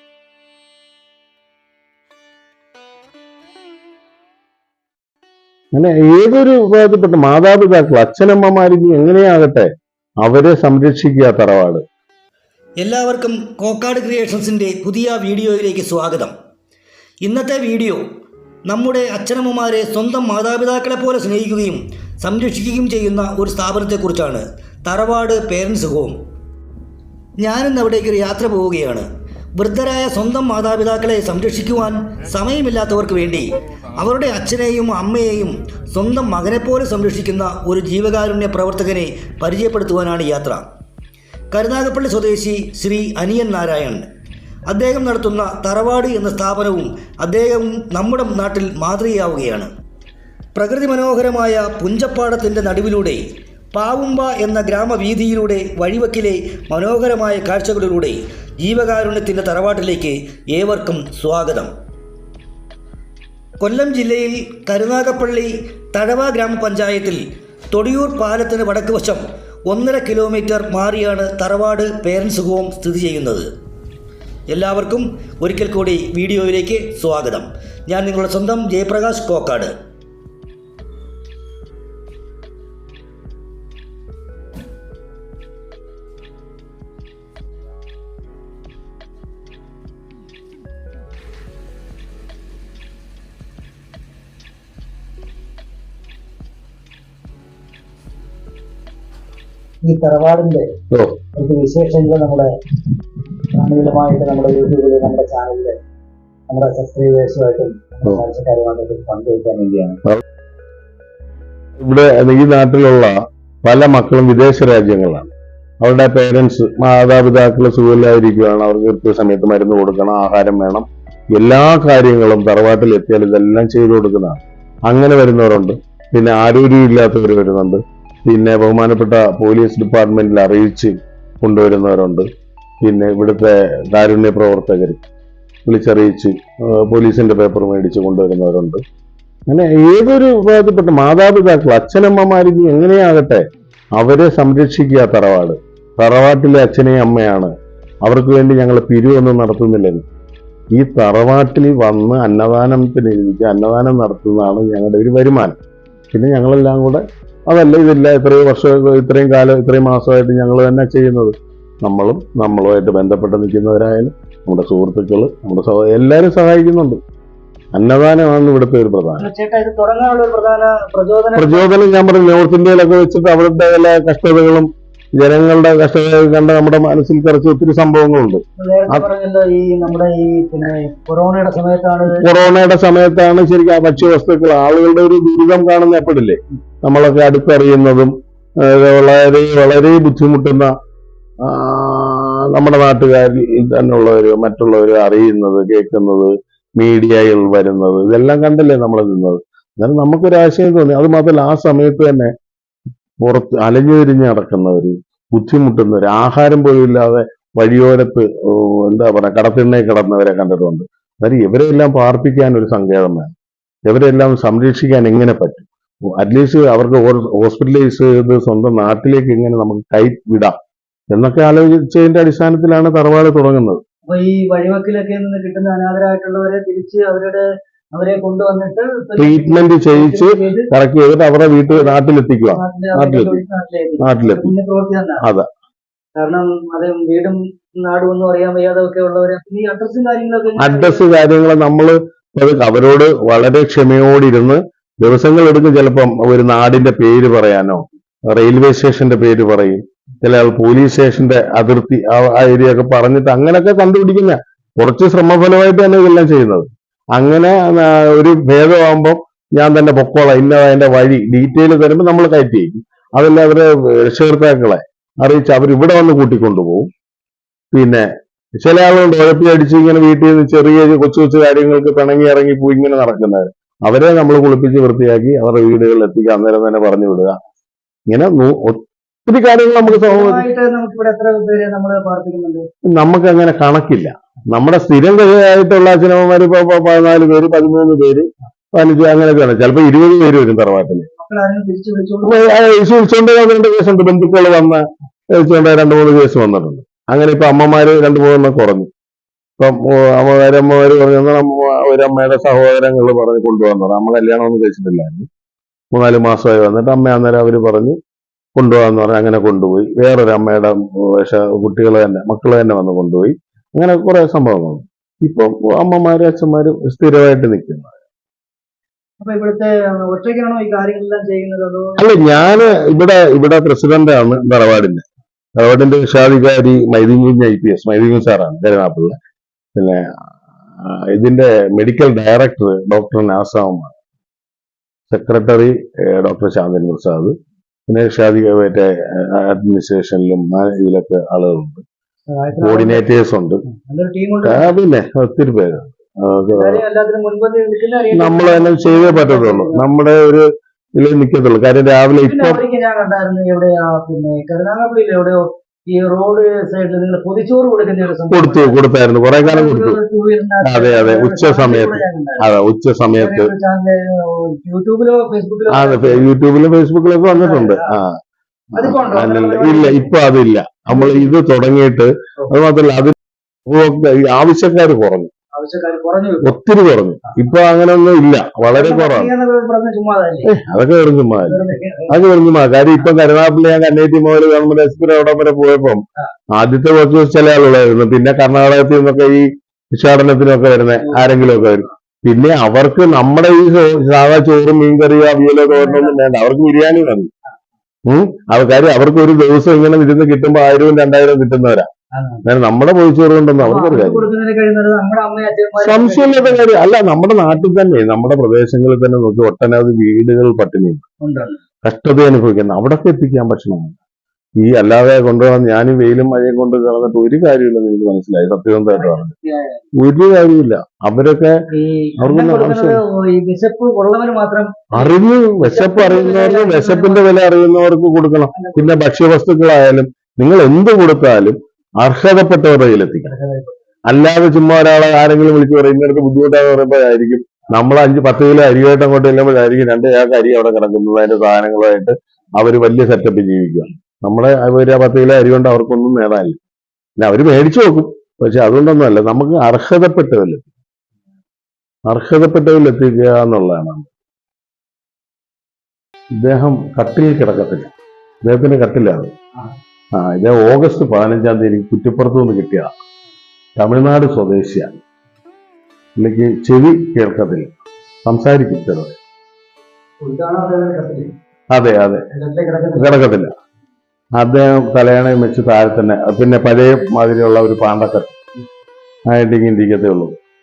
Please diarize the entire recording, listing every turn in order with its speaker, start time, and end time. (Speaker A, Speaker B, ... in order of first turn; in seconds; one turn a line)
Speaker A: 5.8-9.7
Speaker A: 10.2-11.8
Speaker B: 12.8-16.3
Speaker B: 17.2-18.0
Speaker B: 18.7-26.2
Speaker B: 27.4-40.6
Speaker B: 41.5-44.1
Speaker B: 44.7-49.7
Speaker B: 50.5-61.7
Speaker B: 63.6-67.2
Speaker B: 67.7-73.5
Speaker B: 74.5-79.7
Speaker C: 99.8-100.7
Speaker A: 100.9-101.2
Speaker C: 101.4-102.5
Speaker C: 103.5-105.8
Speaker C: 106.5-110.0
Speaker A: 111.8-115.3
Speaker A: 115.8-132.3
Speaker A: 132.8-135.0
Speaker A: 135.7-138.8
Speaker A: 139.5-143.5
Speaker A: 144.0-147.5
Speaker A: 148.1-150.1
Speaker A: 150.8-155.6
Speaker A: 156.1-167.0
Speaker A: 167.8-169.3
Speaker C: 169.2-171.7
Speaker A: 171.4-179.1
Speaker C: 178.6-182.2
Speaker A: 182.1-190.7
Speaker A: 191.4-202.3
Speaker A: 203.2-213.3
Speaker A: 213.9-220.6
Speaker A: 221.1-223.8
Speaker C: 224.1-230.7
Speaker A: 229.2-233.4
Speaker C: 231.7-232.0
Speaker C: 232.5-235.2
Speaker A: 234.0-234.5
Speaker A: 235.2-235.5
Speaker C: 236.2-241.1
Speaker A: 240.6-266.9
Speaker A: 267.7-268.1
Speaker A: 268.6-277.4
Speaker A: 278.1-280.4
Speaker C: 279.9-282.6
Speaker A: 282.9-291.1
Speaker C: 291.2-292.6
Speaker A: 292.2-298.9
Speaker A: 299.6-305.3
Speaker A: 305.9-308.0
Speaker A: 308.6-317.9
Speaker C: 319.2-322.0
Speaker A: 322.0-325.0
Speaker A: 325.6-329.1
Speaker A: 329.8-330.1
Speaker A: 330.8-333.9
Speaker A: 335.1-337.4
Speaker A: 337.9-341.8
Speaker C: 342.3-343.1
Speaker A: 342.6-343.6
Speaker C: 343.8-344.7
Speaker A: 344.4-346.8
Speaker C: 346.5-349.9
Speaker A: 348.1-352.6
Speaker C: 352.2-358.8
Speaker A: 358.3-360.0
Speaker C: 359.4-362.5
Speaker A: 360.6-363.5
Speaker C: 363.1-366.3
Speaker A: 365.7-368.1
Speaker C: 367.3-367.9
Speaker C: 368.8-370.1
Speaker A: 368.8-373.1
Speaker C: 370.9-371.3
Speaker A: 373.7-375.3
Speaker C: 375.5-376.6
Speaker A: 376.4-379.3
Speaker C: 378.7-380.5
Speaker A: 380.4-386.0
Speaker C: 381.5-382.2
Speaker A: 386.6-397.3
Speaker C: 391.0-391.7
Speaker C: 395.7-396.2
Speaker A: 398.1-401.9
Speaker C: 402.1-402.4
Speaker A: 402.4-404.3
Speaker C: 403.6-406.6
Speaker A: 405.8-411.0
Speaker C: 411.2-411.6
Speaker A: 411.8-414.0
Speaker A: 414.6-419.3
Speaker C: 418.9-419.9
Speaker A: 420.0-421.6
Speaker C: 421.7-427.3
Speaker A: 422.2-423.0
Speaker A: 424.9-433.3
Speaker C: 428.5-429.0
Speaker C: 433.2-433.8
Speaker A: 434.1-446.6
Speaker A: 447.2-450.7
Speaker A: 452.1-454.1
Speaker A: 456.4-457.9
Speaker A: 458.4-459.3
Speaker A: 460.1-462.9
Speaker A: 463.8-465.0
Speaker A: 466.2-467.7
Speaker A: 468.3-469.2
Speaker C: 470.2-471.3
Speaker A: 471.7-472.2
Speaker C: 472.3-473.2
Speaker A: 473.0-473.5
Speaker A: 474.4-478.4
Speaker A: 479.3-480.3